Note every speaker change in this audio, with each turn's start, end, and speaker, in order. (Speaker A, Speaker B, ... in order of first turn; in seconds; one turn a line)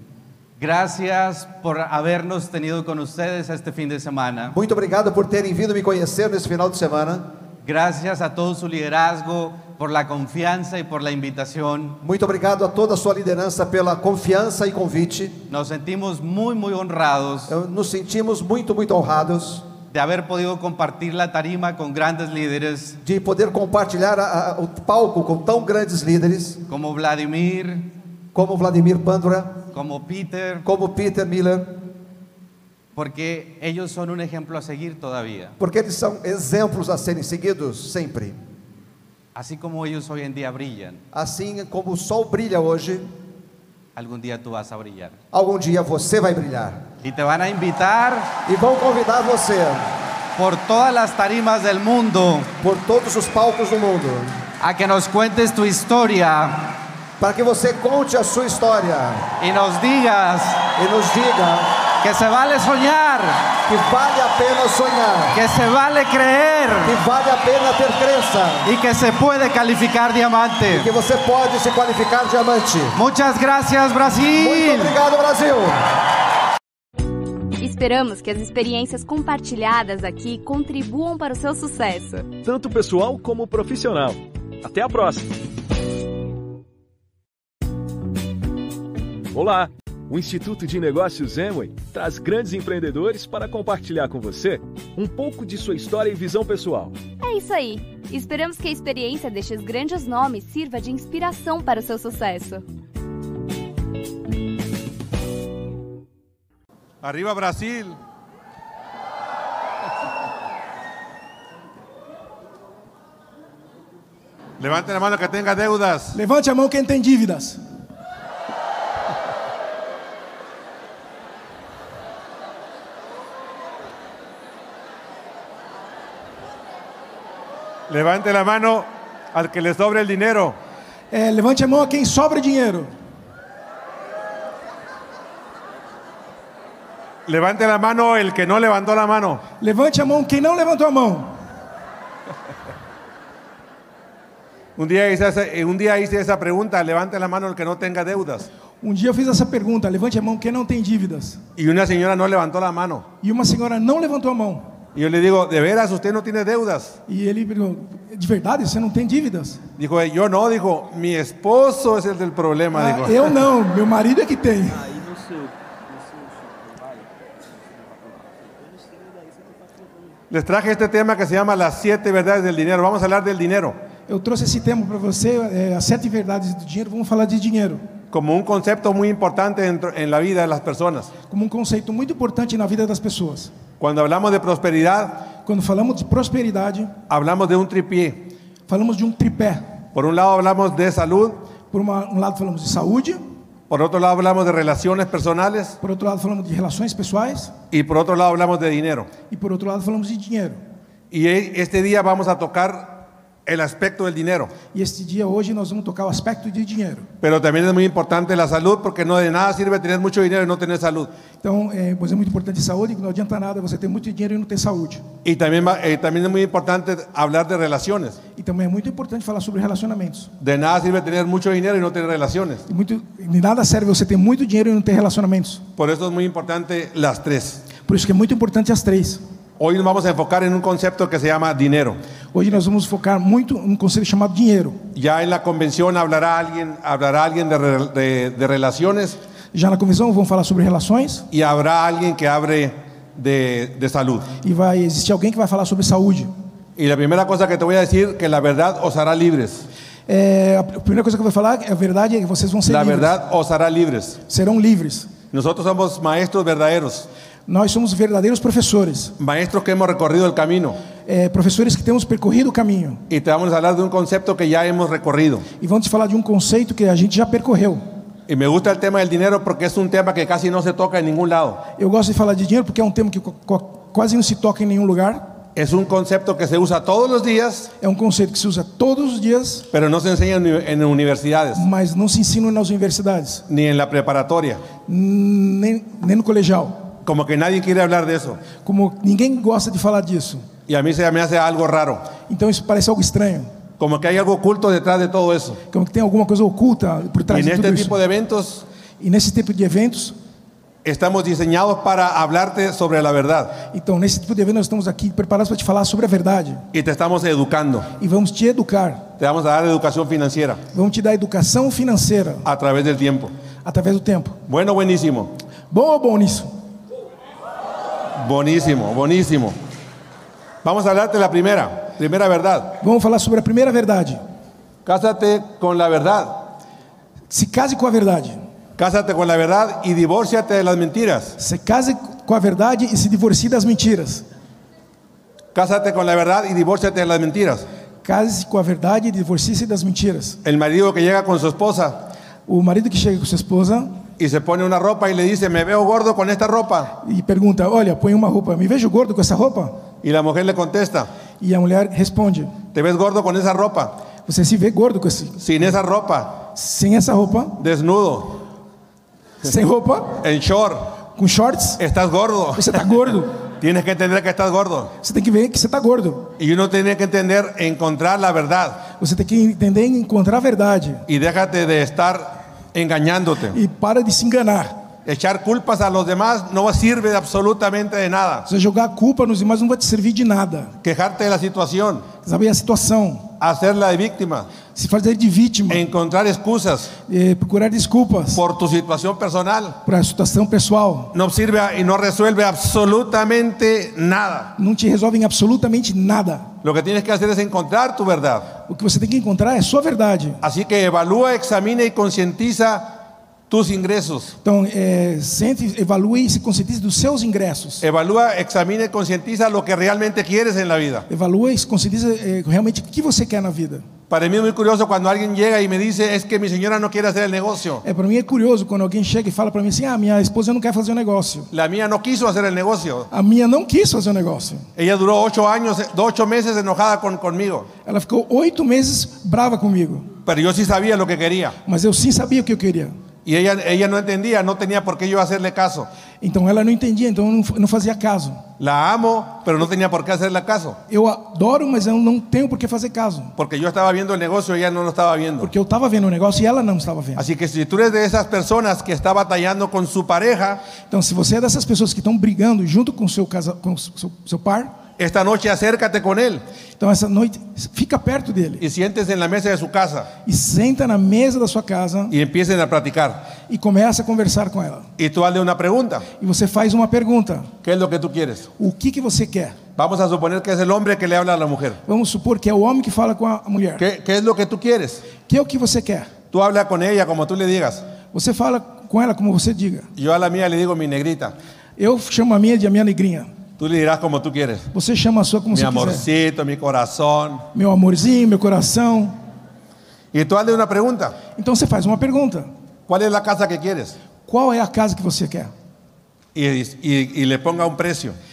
Speaker A: 0.6-4.5
Speaker B: 4.5-7.3
Speaker A: 7.6-12.0
Speaker B: 12.0-15.4
Speaker A: 15.5-17.6
Speaker B: 17.5-19.7
Speaker A: 19.9-23.0
Speaker B: 23.0-26.6
Speaker A: 26.7-27.9
Speaker B: 28.3-29.6
Speaker A: 29.7-30.7
Speaker B: 30.6-31.9
Speaker A: 33.0-35.6
Speaker B: 35.6-38.4
Speaker A: 39.3-41.0
Speaker B: 41.1-43.1
Speaker A: 43.9-45.2
Speaker B: 45.3-46.9
Speaker A: 47.0-48.4
Speaker B: 48.4-49.9
Speaker A: 50.3-52.5
Speaker B: 52.6-54.4
Speaker A: 54.6-56.8
Speaker B: 57.2-59.3
Speaker A: 59.4-60.7
Speaker B: 60.7-61.7
Speaker A: 62.0-63.5
Speaker B: 63.7-65.3
Speaker A: 65.3-67.0
Speaker B: 66.8-68.7
Speaker A: 68.6-70.9
Speaker B: 70.7-73.0
Speaker A: 72.9-75.0
Speaker B: 74.3-75.8
Speaker C: 77.6-82.3
Speaker D: 82.3-85.3
Speaker D: 89.3-97.0
Speaker C: 97.2-102.6
Speaker E: 107.0-108.0
Speaker E: 114.6-116.2
Speaker F: 116.1-117.6
Speaker E: 127.9-130.6
Speaker F: 131.1-132.9
Speaker E: 137.2-139.4
Speaker F: 139.6-141.4
Speaker E: 144.8-148.5
Speaker F: 148.8-151.4
Speaker E: 151.6-153.1
Speaker F: 153.2-154.7
Speaker E: 154.9-157.0
Speaker F: 157.1-159.6
Speaker E: 159.8-163.3
Speaker F: 162.7-165.0
Speaker E: 170.3-173.8
Speaker F: 174.1-177.8
Speaker E: 178.1-181.1
Speaker F: 181.3-183.5
Speaker E: 183.8-185.3
Speaker F: 185.3-187.0
Speaker E: 187.1-188.3
Speaker F: 188.7-189.8
Speaker E: 189.9-191.4
Speaker F: 191.7-193.2
Speaker E: 193.7-195.8
Speaker F: 195.8-197.6
Speaker E: 197.7-199.1
Speaker F: 199.3-200.6
Speaker E: 201.1-204.6
Speaker F: 204.7-207.1
Speaker E: 207.2-211.1
Speaker F: 211.4-215.1
Speaker E: 215.2-218.2
Speaker F: 218.3-220.3
Speaker E: 220.4-222.6
Speaker F: 222.7-225.6
Speaker E: 225.8-227.7
Speaker F: 227.8-229.2
Speaker E: 229.6-232.0
Speaker F: 232.3-234.8
Speaker E: 234.9-239.2
Speaker F: 239.5-241.3
Speaker E: 241.3-244.3
Speaker F: 244.4-246.3
Speaker E: 246.8-249.7
Speaker F: 250.1-253.1
Speaker E: 252.7-254.2
Speaker F: 254.2-255.2
Speaker E: 255.3-257.1
Speaker F: 257.5-259.1
Speaker E: 259.2-260.8
Speaker F: 261.0-263.0
Speaker E: 263.1-265.4
Speaker F: 265.6-267.8
Speaker E: 268.3-271.6
Speaker F: 271.8-275.4
Speaker E: 275.5-277.7
Speaker F: 277.8-279.7
Speaker E: 279.7-281.6
Speaker F: 281.5-283.4
Speaker E: 283.5-284.6
Speaker F: 284.8-286.9
Speaker E: 287.0-288.5
Speaker F: 288.5-290.6
Speaker E: 290.6-292.1
Speaker F: 292.2-293.5
Speaker E: 293.8-295.6
Speaker F: 295.7-298.0
Speaker E: 297.3-298.6
Speaker F: 299.0-300.1
Speaker E: 300.8-303.7
Speaker F: 303.7-306.6
Speaker E: 306.7-307.9
Speaker F: 308.0-309.1
Speaker E: 309.2-310.6
Speaker F: 310.7-312.4
Speaker E: 312.4-313.3
Speaker F: 313.6-314.4
Speaker E: 314.5-315.3
Speaker F: 315.7-316.5
Speaker E: 318.2-319.6
Speaker E: 320.6-322.8
Speaker F: 322.8-324.2
Speaker E: 324.8-326.4
Speaker F: 327.3-328.4
Speaker E: 328.8-331.4
Speaker F: 331.4-334.2
Speaker E: 335.5-337.6
Speaker F: 338.0-340.4
Speaker E: 340.4-342.1
Speaker F: 342.5-344.0
Speaker E: 344.2-346.9
Speaker F: 347.0-349.9
Speaker E: 350.0-351.1
Speaker F: 351.4-352.6
Speaker E: 352.6-354.0
Speaker F: 354.2-355.4
Speaker E: 355.4-356.5
Speaker F: 356.5-357.6
Speaker E: 357.6-358.4
Speaker F: 359.4-360.2
Speaker E: 360.2-361.0
Speaker F: 361.1-361.8
Speaker E: 361.8-362.9
Speaker F: 362.6-363.4
Speaker E: 363.5-364.9
Speaker F: 365.0-366.3
Speaker E: 366.4-368.9
Speaker F: 368.9-371.0
Speaker E: 371.1-373.6
Speaker F: 373.5-374.9
Speaker E: 375.1-378.5
Speaker F: 378.4-380.7
Speaker E: 380.8-382.1
Speaker F: 382.2-383.4
Speaker E: 383.4-384.5
Speaker F: 384.7-385.8
Speaker E: 385.7-386.9
Speaker F: 387.1-388.4
Speaker E: 388.3-389.8
Speaker F: 389.8-391.1
Speaker E: 391.1-394.5
Speaker F: 394.6-396.6
Speaker E: 396.6-398.5
Speaker F: 398.6-400.4
Speaker E: 400.4-403.0
Speaker E: 403.5-404.3
Speaker F: 404.4-407.8
Speaker E: 407.8-411.1
Speaker F: 411.1-413.9
Speaker E: 414.1-417.8
Speaker F: 417.8-421.5
Speaker E: 421.5-423.1
Speaker F: 423.1-424.7
Speaker E: 424.8-427.7
Speaker F: 427.9-430.1
Speaker E: 430.2-431.6
Speaker F: 431.6-432.9
Speaker E: 433.2-435.9
Speaker F: 436.2-438.5
Speaker E: 438.6-440.8
Speaker F: 440.9-443.3
Speaker E: 443.4-445.5
Speaker F: 445.4-447.2
Speaker E: 447.2-450.6
Speaker F: 450.8-454.8
Speaker E: 455.0-456.4
Speaker F: 456.8-458.6
Speaker E: 458.6-460.1
Speaker F: 460.2-462.1
Speaker E: 462.1-463.4
Speaker F: 463.4-464.9
Speaker E: 465.0-466.1
Speaker F: 466.1-467.5
Speaker E: 467.6-468.5
Speaker F: 468.6-469.6
Speaker E: 469.8-471.8
Speaker F: 471.9-473.8
Speaker E: 473.8-475.1
Speaker F: 475.1-476.2
Speaker E: 476.3-477.8
Speaker F: 478.1-479.9
Speaker E: 480.0-481.3
Speaker F: 481.8-483.3
Speaker E: 483.6-484.7
Speaker F: 484.7-486.1
Speaker E: 485.5-487.4
Speaker F: 487.5-489.2
Speaker E: 490.1-491.2
Speaker F: 491.3-492.5
Speaker E: 492.9-493.9
Speaker F: 494.2-495.5
Speaker E: 496.3-498.1